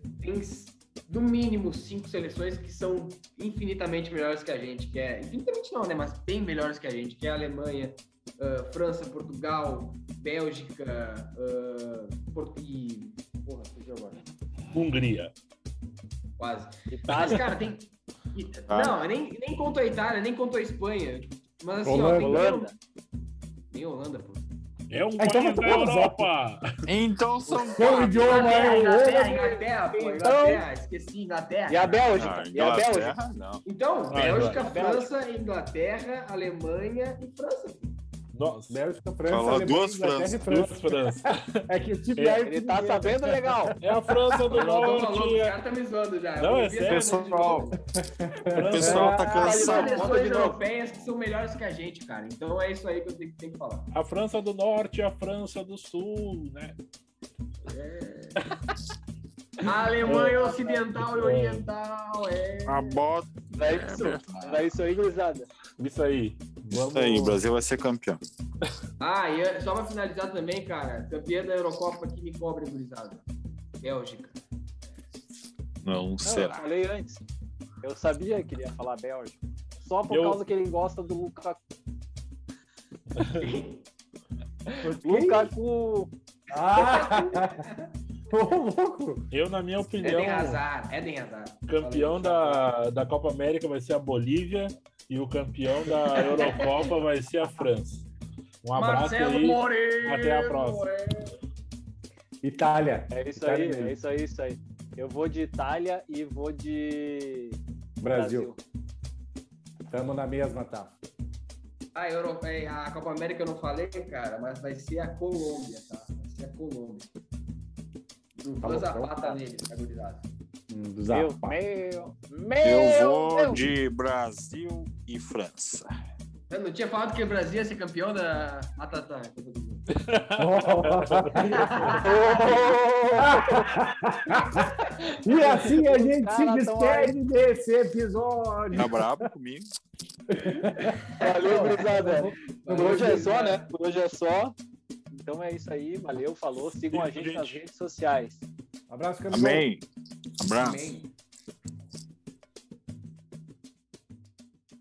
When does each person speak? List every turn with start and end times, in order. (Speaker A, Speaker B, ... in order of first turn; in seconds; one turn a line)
Speaker A: 0.2-14.2
Speaker B: 14.7-15.3
Speaker A: 16.4-22.7
Speaker C: 16.9-17.5
Speaker D: 18.7-19.0
Speaker E: 21.8-22.5
Speaker C: 22.1-22.7
Speaker A: 23.7-24.4
Speaker B: 24.9-26.7
Speaker E: 25.2-26.3
Speaker D: 26.8-28.5
Speaker C: 27.5-28.0
Speaker E: 27.7-29.6
Speaker A: 28.2-32.0
Speaker C: 28.6-28.9
Speaker C: 29.9-30.6
Speaker C: 31.7-33.1
Speaker D: 32.0-33.6
Speaker A: 33.6-38.0
Speaker B: 34.1-34.6
Speaker C: 34.3-35.1
Speaker B: 38.3-38.8
Speaker E: 38.7-44.6
Speaker D: 39.3-40.4
Speaker B: 40.5-41.6
Speaker C: 42.2-43.7
Speaker B: 43.8-45.6
Speaker A: 44.5-47.8
Speaker B: 46.4-47.1
Speaker D: 46.8-47.7
Speaker E: 47.8-49.3
Speaker B: 48.5-49.2
Speaker D: 48.6-50.1
Speaker C: 49.3-50.6
Speaker A: 49.4-53.9
Speaker B: 53.9-56.8
Speaker A: 57.6-58.5
Speaker A: 59.6-63.0
Speaker B: 60.0-60.4
Speaker C: 60.0-60.8
Speaker B: 60.9-61.7
Speaker D: 62.6-64.7
Speaker C: 63.5-65.5
Speaker B: 65.8-67.4
Speaker D: 66.7-68.2
Speaker A: 69.0-73.2
Speaker A: 73.8-74.4
Speaker D: 75.8-76.7
Speaker C: 76.2-77.2
Speaker C: 77.8-81.6
Speaker B: 80.1-80.4
Speaker A: 83.2-83.8
Speaker C: 84.7-86.1
Speaker E: 84.8-85.5
Speaker E: 86.5-87.7
Speaker A: 86.7-87.9
Speaker E: 88.3-89.2
Speaker B: 89.3-90.6
Speaker A: 90.0-92.7
Speaker B: 91.7-98.1
Speaker A: 96.1-96.7
Speaker B: 98.6-100.9
Speaker A: 98.7-101.3
Speaker E: 102.4-103.9
Speaker C: 103.1-107.6
Speaker E: 108.0-108.5
Speaker C: 108.1-108.6
Speaker E: 109.9-110.9
Speaker A: 111.9-117.1
Speaker A: 118.4-120.3
Speaker E: 118.6-119.4
Speaker E: 120.7-121.6
Speaker C: 121.1-123.7
Speaker D: 122.6-125.9
Speaker A: 126.5-129.9
Speaker B: 130.0-131.9
Speaker E: 130.4-132.5
Speaker A: 131.5-132.7
Speaker C: 132.0-133.8
Speaker E: 133.2-139.2
Speaker C: 135.1-137.1
Speaker D: 138.7-139.7
Speaker E: 140.3-143.3
Speaker A: 140.7-143.7
Speaker C: 141.2-144.5
Speaker C: 145.1-148.4
Speaker B: 146.9-147.6
Speaker E: 148.9-149.7
Speaker D: 149.3-149.8
Speaker D: 150.4-151.0
Speaker A: 150.5-151.1